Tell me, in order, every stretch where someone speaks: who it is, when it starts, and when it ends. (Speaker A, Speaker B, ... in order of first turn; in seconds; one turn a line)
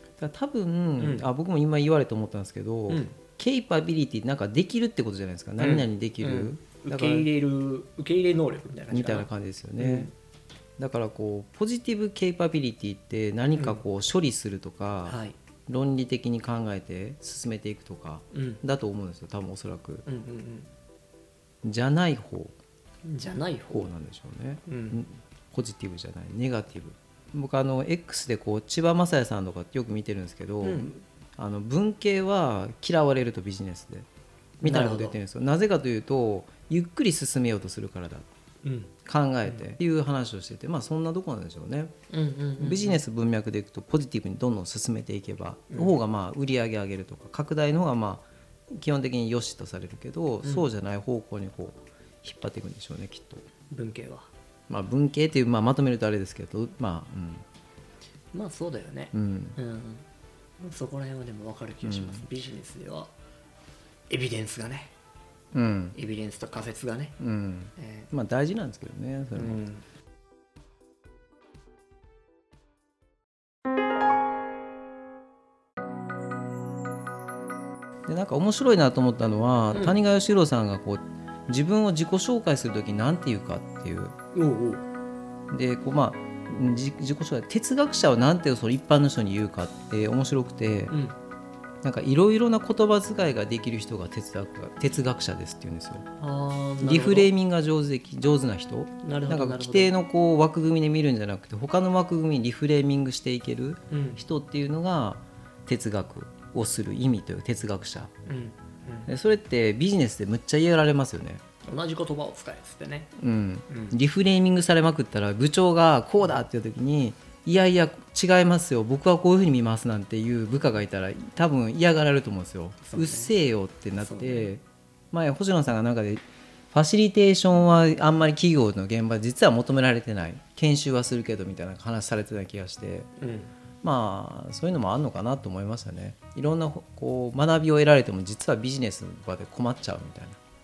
Speaker A: 0.2-7.3
Speaker B: 1.0-1.3
Speaker B: 2.9-3.2
Speaker B: 5.6-10.1
Speaker A: 8.9-10.1
Speaker A: 10.8-15.2
Speaker B: 13.6-13.8
Speaker B: 15.1-15.4
Speaker A: 15.7-20.1
Speaker B: 18.3-18.6
Speaker B: 20.1-20.7
Speaker A: 21.6-22.6
Speaker B: 23.1-23.9
Speaker A: 23.7-34.1
Speaker B: 24.7-25.0
Speaker B: 30.6-30.9
Speaker A: 34.6-38.3
Speaker B: 34.6-35.2
Speaker B: 38.6-38.9
Speaker A: 39.1-41.9
Speaker B: 42.1-43.0
Speaker A: 42.6-53.4
Speaker B: 45.7-46.0
Speaker B: 50.4-50.7
Speaker B: 53.7-54.3
Speaker A: 54.7-57.5
Speaker B: 58.3-60.0
Speaker A: 59.1-59.6
Speaker B: 60.6-63.1
Speaker A: 61.8-62.3
Speaker B: 64.1-64.9
Speaker A: 65.5-66.0
Speaker B: 65.9-67.2
Speaker A: 67.2-69.6
Speaker B: 67.8-68.1
Speaker B: 69.3-69.8
Speaker A: 78.1-84.2
Speaker B: 79.7-80.0
Speaker B: 84.3-84.8
Speaker A: 85.5-91.0
Speaker B: 90.9-91.2
Speaker A: 91.8-96.1
Speaker B: 96.2-97.3
Speaker A: 96.8-108.1
Speaker B: 99.0-100.0
Speaker B: 103.9-104.2
Speaker B: 108.3-109.1
Speaker A: 109.1-111.4
Speaker B: 111.7-113.1
Speaker A: 113.2-133.1
Speaker B: 113.7-114.0
Speaker B: 122.8-123.3
Speaker B: 124.0-124.5
Speaker B: 133.2-133.5
Speaker A: 133.8-140.4